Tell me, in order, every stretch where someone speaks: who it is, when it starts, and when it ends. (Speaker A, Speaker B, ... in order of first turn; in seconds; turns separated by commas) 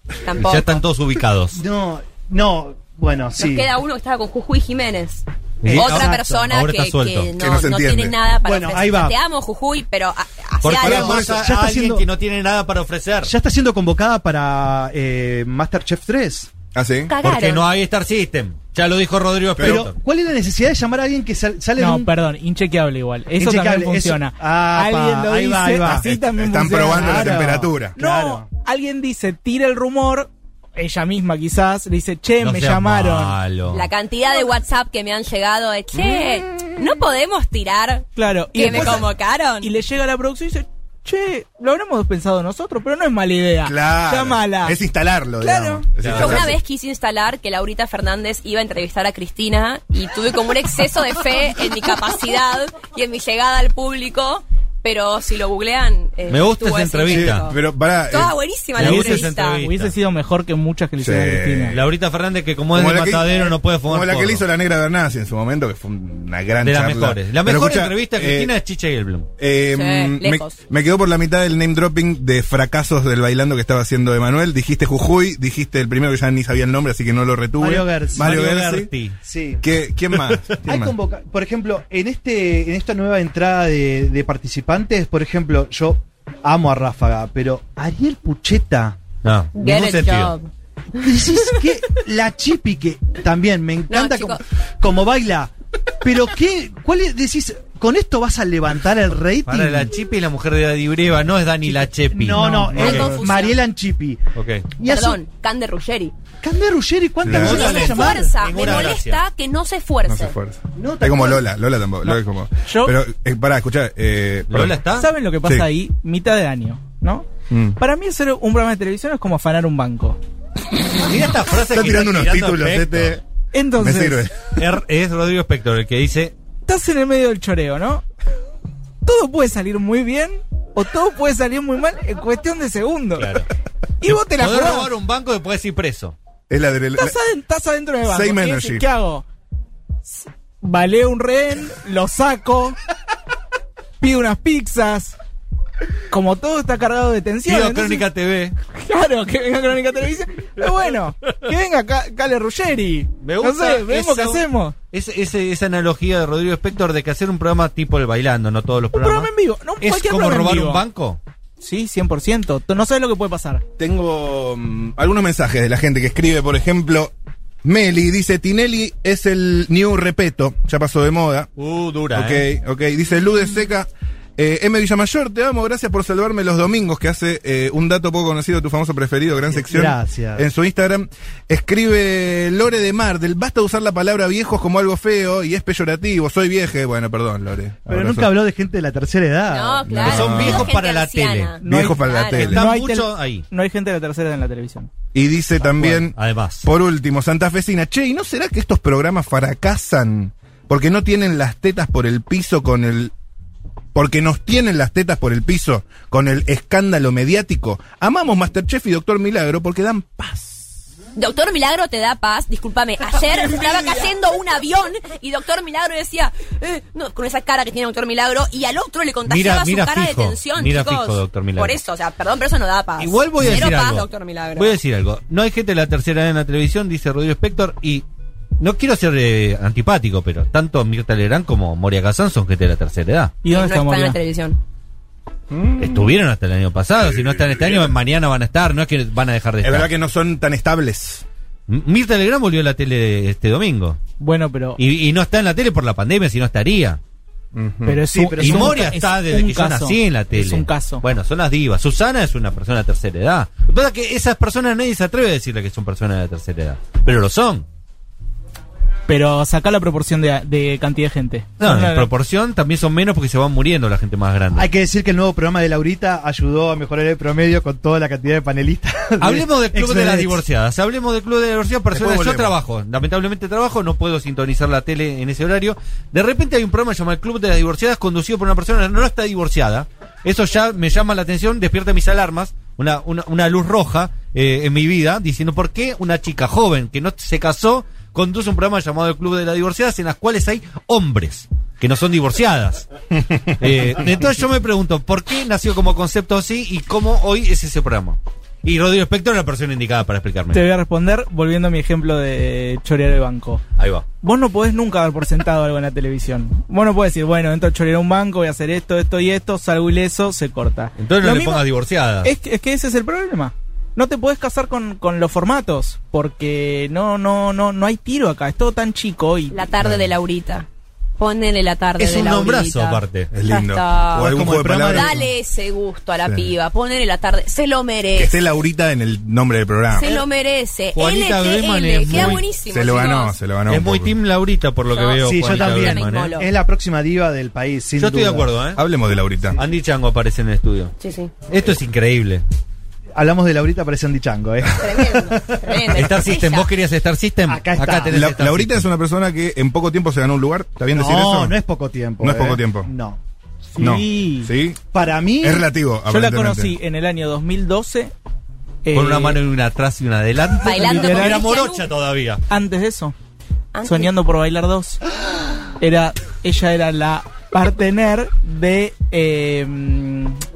Speaker A: 0.2-0.8, Speaker B: 0.3-1.6, Speaker C: 1.5-3.7, Speaker A: 3.4-11.3, Speaker B: 5.6-7.3, Speaker C: 5.6-6.5, Speaker D: 7.4-8.2, Speaker C: 8.4-9.2, Speaker B: 10.6-13.3, Speaker D: 10.8-11.4, Speaker C: 10.8-12.0, Speaker C: 13.2-16.5, Speaker D: 16.7-17.1, Speaker A: 17.1-17.6, Speaker B: 17.2-19.9, Speaker D: 19.6-19.8, Speaker C: 19.6-22.1, Speaker E: 21.8-33.4, Speaker C: 23.4-26.1, Speaker D: 26.0-27.9, Speaker C: 26.6-28.4, Speaker B: 32.4-33.9, Speaker A: 33.7-39.7, Speaker D: 36.0-36.7, Speaker E: 38.1-39.1, Speaker E: 39.6-44.8, Speaker D: 43.6-46.6, Speaker E: 45.4-45.9, Speaker B: 46.0-46.5, Speaker A: 46.1-59.6, Speaker B: 56.3-57.5, Speaker D: 57.1-58.4, Speaker B: 58.8-59.9, Speaker E: 58.8-61.8, Speaker D: 61.0-61.9, Speaker B: 61.7-64.5, Speaker D: 62.7-68.5, Speaker B: 66.6-69.3, Speaker D: 69.4-78.9, Speaker A: 69.7-70.6, Speaker C: 77.6-78.3, Speaker B: 78.2-79.2, Speaker C: 79.2-79.6, Speaker D: 79.6-80.9, Speaker B: 80.1-80.6, Speaker C: 80.6-89.0, Speaker B: 89.2-90.3, Speaker A: 89.5-91.6, Speaker C: 90.9-99.9, Speaker A: 93.9-94.4, Speaker B: 99.4-103.0, Speaker C: 101.7-104.2, Speaker E: 102.3-103.2, Speaker A: 102.8-103.6, Speaker B: 104.3-104.7, Speaker C: 104.8-105.2, Speaker A: 104.8-106.1, Speaker C: 106.4-108.6, Speaker D: 107.2-107.8, Speaker B: 107.2-109.2, Speaker A: 107.4-110.3, Speaker D: 110.0-114.8, Speaker C: 110.7-111.5, Speaker E: 112.6-112.9, Speaker B: 114.5-115.1, Speaker E: 115.0-120.2, Speaker D: 117.5-117.8, Speaker B: 121.0-123.2, Speaker D: 121.6-123.2, Speaker E: 123.5-124.3, Speaker D: 123.8-124.6, Speaker B: 124.5-126.3, Speaker E: 126.7-128.0, Speaker E: 129.0-133.4, Speaker B: 133.2-133.5, Speaker E: 134.0-134.9, Speaker B: 134.4-136.1, Speaker D: 136.5-137.2, Speaker E: 137.0-139.2, Speaker D: 138.1-138.8, Speaker E: 140.1-142.8, Speaker E: 144.0-145.2, Speaker E: 146.1-148.1, Speaker B: 147.5-148.5, Speaker E: 148.7-154.7, Speaker B: 153.2-159.3, Speaker E: 158.9-160.8, Speaker B: 159.8-161.2, Speaker E: 161.6-163.6, Speaker D: 163.8-167.1, Speaker D: 167.6-171.5, Speaker B: 171.6-172.5, Speaker D: 172.1-188.3, Speaker C: 179.6-180.5, Speaker C: 187.9-190.1, Speaker A: 189.5-192.5, Speaker D: 189.9-190.7, Speaker B: 190.0-191.6, Speaker E: 191.6-194.9, Speaker D: 191.6-192.6, Speaker B: 192.3-193.4, Speaker D: 195.1-203.1, Speaker B: 195.8-196.7, Speaker D: 203.9-210.8, Speaker A: 211.2-224.8, Speaker B: 219.3-221.8, Speaker B: 223.0-228.0, Speaker B: 228.6-233.4, Speaker E: 233.4-234.2, Speaker A: 233.5-234.6, Speaker D: 235.5-236.1, Speaker B: 235.8-239.9, Speaker D: 237.0-237.9, Speaker D: 239.6-241.2, Speaker B: 241.7-244.0, Speaker E: 244.2-244.8, Speaker B: 244.8-247.0, Speaker D: 247.5-248.1, Speaker E: 247.8-251.0, Speaker C: 248.1-248.9, Speaker B: 248.4-257.6, Speaker E: 259.1-262.1, Speaker B: 261.6-264.7, Speaker C: 264.5-270.4, Speaker B: 269.2-292.9, Speaker D: 271.9-272.5, Speaker B: 293.6-300.6, Speaker E: 300.5-303.6, Speaker B: 303.8-304.0, Speaker E: 304.2-311.6, Speaker B: 311.0-312.3, Speaker E: 312.2-319.7, Speaker A: 319.5-320.6, Speaker D: 319.8-320.1, Speaker A: 321.2-328.4, Speaker B: 322.0-323.3, Speaker D: 323.3-325.3, Speaker C: 324.1-325.2, Speaker D: 326.2-326.5, Speaker D: 328.1-330.2, Speaker A: 329.9-333.4, Speaker B: 330.9-332.5, Speaker D: 332.1-334.1, Speaker B: 333.7-336.4, Speaker A: 334.9-336.5, Speaker C: 335.2-338.5, Speaker B: 338.0-338.8, Speaker D: 338.8-339.6, Speaker B: 339.6-340.9, Speaker A: 341.0-341.3, Speaker B: 341.4-342.4, Speaker C: 343.1-346.0, Speaker A: 344.8-346.7, Speaker B: 345.9-348.9, Speaker C: 347.5-348.2, Speaker D: 348.1-351.6, Speaker C: 350.9-353.2, Speaker D: 352.2-352.9, Speaker E: 353.7-354.5, Speaker D: 353.8-354.8, Speaker C: 354.9-355.7, Speaker D: 355.4-356.8, Speaker E: 356.1-358.1, Speaker E: 358.8-359.4, Speaker B: 358.9-362.4, Speaker A: 360.6-361.9, Speaker E: 360.7-361.4, Speaker E: 362.5-363.1, Speaker A: 363.7-364.1, Speaker E: 363.8-365.0, Speaker E: 365.8-370.4